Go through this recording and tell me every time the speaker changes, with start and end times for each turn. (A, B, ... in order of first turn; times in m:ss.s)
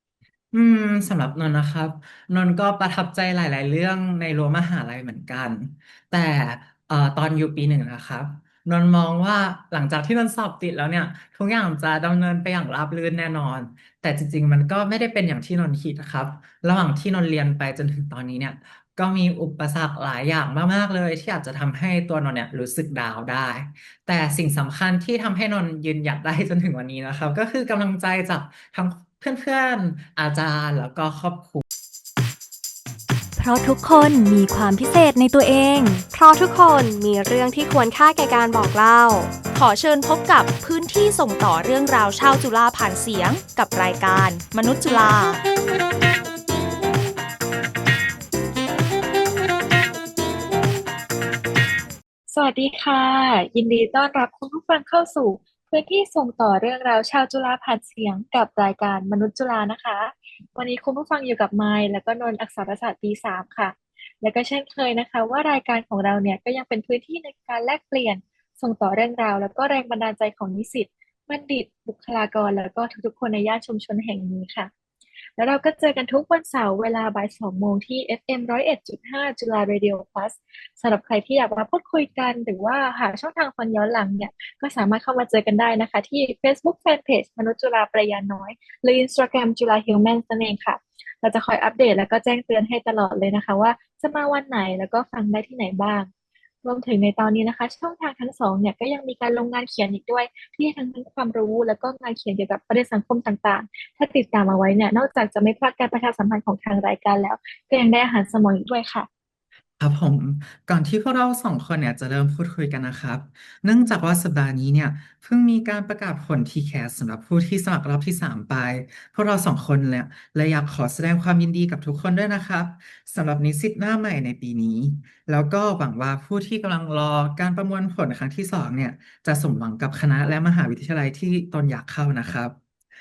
0:00.5-0:31.6 A
0:33.4-0:36.1 B
0:36.1-0:39.3 C
0:39.5-0:45.4 D
0:52.3-1:14.7 E
1:15.4-1:36.1 E
1:36.6-1:49.1 E
1:49.8-2:12.6 A